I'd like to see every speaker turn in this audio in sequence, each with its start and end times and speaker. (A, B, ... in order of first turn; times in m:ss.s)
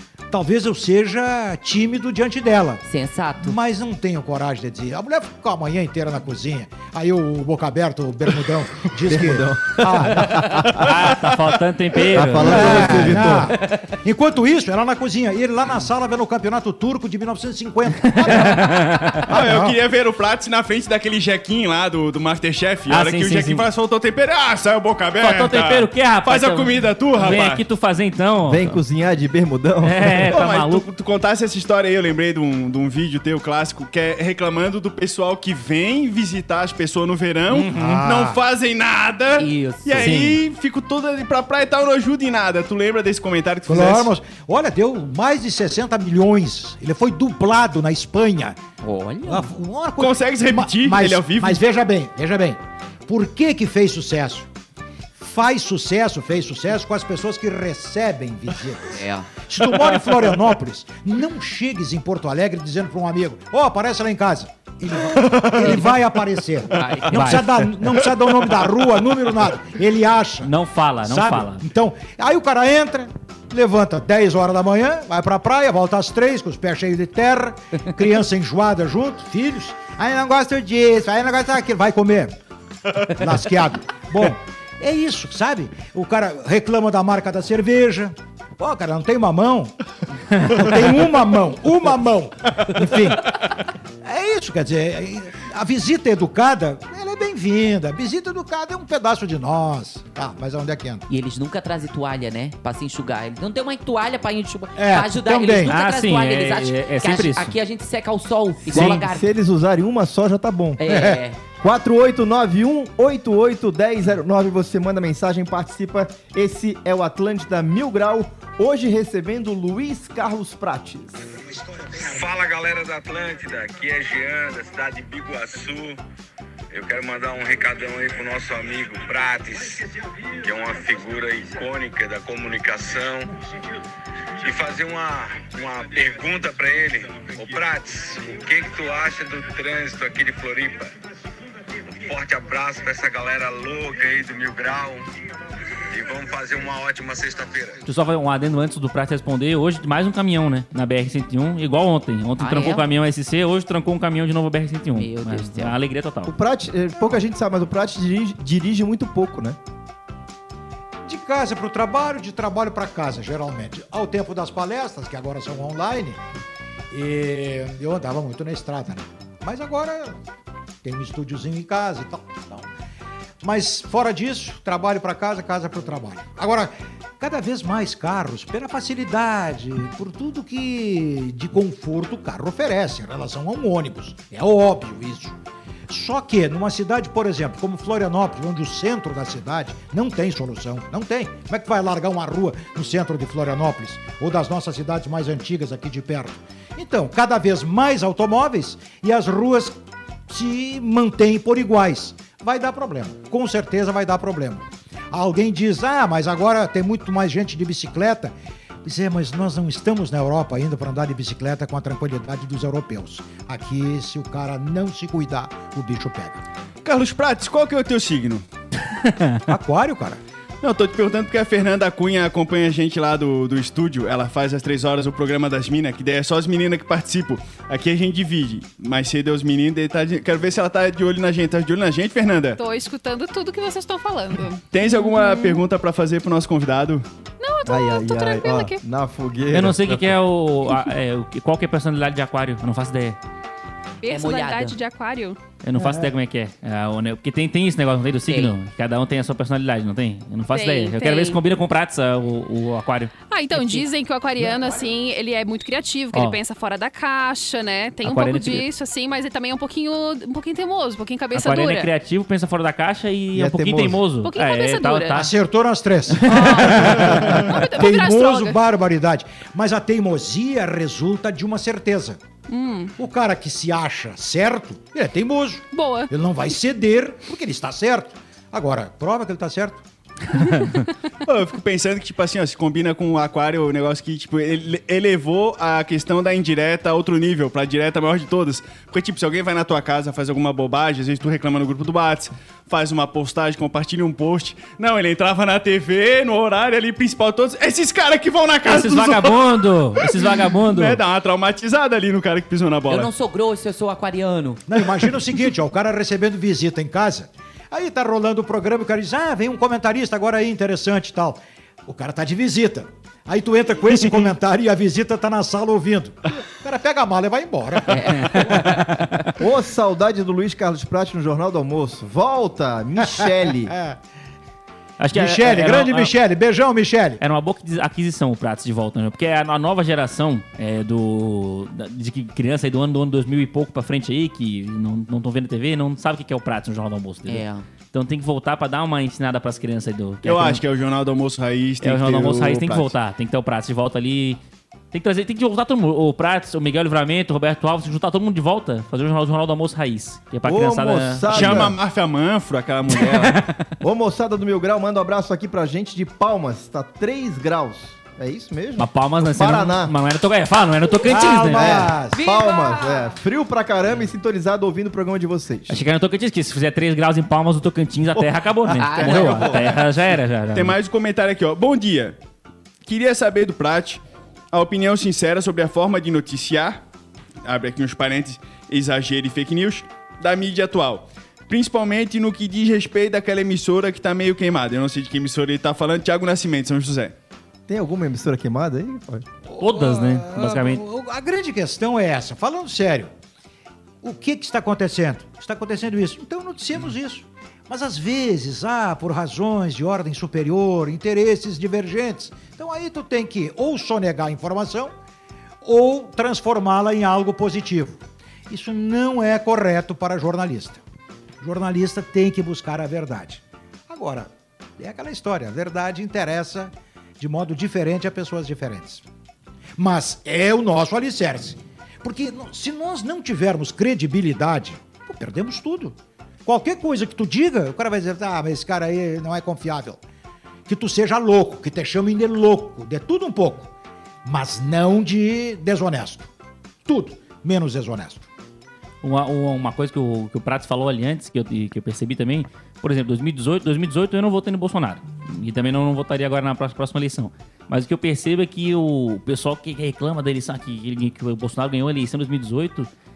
0:00.3-0:02.8 A
0:02.9-0:03.6 B
0:03.4-0:10.7 A
0:09.0-0:10.9 C
0:10.7-0:13.2 D
0:12.1-0:13.6 C
0:12.4-0:19.8 A
0:18.1-0:19.2 D
0:19.3-0:27.6 E
0:22.9-0:23.6 D
0:25.2-0:28.8 D
0:28.5-0:30.4 C
0:29.8-0:30.8 D
0:30.3-0:44.1 E
0:37.5-0:38.0 D
0:37.7-0:38.4 A
0:39.4-0:40.4 B
0:43.7-0:48.6 A
0:48.8-0:49.5 B
0:49.2-0:54.5 A
0:50.0-0:51.6 E
0:55.2-1:10.5 A
0:58.9-0:59.3 B
1:05.5-1:06.0 B
1:06.7-1:07.4 B
1:07.1-1:07.6 D
1:10.4-1:11.7 D
1:11.0-1:22.4 A
1:23.0-1:29.7 A
1:30.3-1:41.0 A
1:41.1-1:49.3 B
1:44.8-1:45.7 A
1:45.7-1:47.6 D
1:48.7-1:50.8 C
1:50.8-1:51.4 B
1:50.8-1:51.2 A
1:51.6-2:01.2 C
2:02.0-2:06.0 F
2:06.7-2:09.9 F
2:10.4-2:13.3 F
2:14.4-2:20.9 F
2:22.0-2:25.1 F
2:25.9-2:27.8 F
2:27.8-2:36.3 D
2:32.4-2:32.8 B
2:35.0-2:35.8 B
2:36.3-2:39.6 C
2:41.1-2:46.2 A
2:46.9-2:50.2 A
2:50.8-2:52.7 A
2:53.4-3:05.4 A
3:05.9-3:19.8 A
3:20.3-3:36.4 A
3:36.8-3:38.4 E
3:39.0-3:39.4 D
3:39.5-3:40.2 A
3:40.6-3:52.6 E
3:52.6-3:55.6 G
3:54.7-3:57.0 E
3:57.4-3:58.8 G
3:57.7-4:00.2 C
3:59.5-4:03.2 D
4:04.0-4:05.4 G
4:04.1-4:04.8 B
4:05.6-4:13.8 D
4:05.8-4:06.1 A
4:08.3-4:08.6 B
4:10.5-4:11.4 G
4:13.3-4:21.9 G
4:16.1-4:16.4 D
4:18.0-4:18.7 D
4:21.3-4:25.3 D
4:23.3-4:24.1 C
4:24.2-4:25.3 G
4:25.1-4:32.2 A
4:26.2-4:27.3 D
4:26.3-4:28.6 G
4:32.5-4:32.9 G
4:33.0-4:39.8 A
4:35.7-4:36.1 G
4:41.2-4:59.4 E
4:58.7-5:01.0 D
5:00.0-5:03.1 E
5:02.9-5:04.6 B
5:04.7-5:18.5 A
5:17.9-5:18.8 B
5:18.2-5:19.3 D
5:19.4-5:23.8 C
5:23.0-5:24.0 A
5:25.0-5:26.1 D
5:25.1-5:27.2 A
5:27.2-5:40.6 D
5:37.3-5:37.7 B
5:40.2-5:42.9 E
5:41.8-5:44.4 D
5:44.9-5:51.7 D
5:50.4-5:51.8 C
5:51.3-5:53.4 E
5:53.0-5:53.7 D
5:53.8-5:59.9 C
5:58.8-6:01.9 D
6:01.1-6:02.2 A
6:01.6-6:05.8 C
6:02.2-6:03.2 G
6:05.7-6:10.8 D
6:08.1-6:09.8 C
6:08.7-6:09.6 B
6:10.5-6:12.2 E
6:12.9-6:16.8 E
6:17.4-6:27.1 E
6:27.7-6:29.3 C
6:29.5-6:33.1 A
6:29.6-6:30.8 D
6:34.0-6:45.0 A
6:45.6-6:50.8 A
6:51.4-6:59.0 A
6:59.8-7:10.0 A
7:10.7-7:13.7 A
7:14.2-7:16.3 A
7:16.9-7:18.3 A
7:19.0-7:32.9 D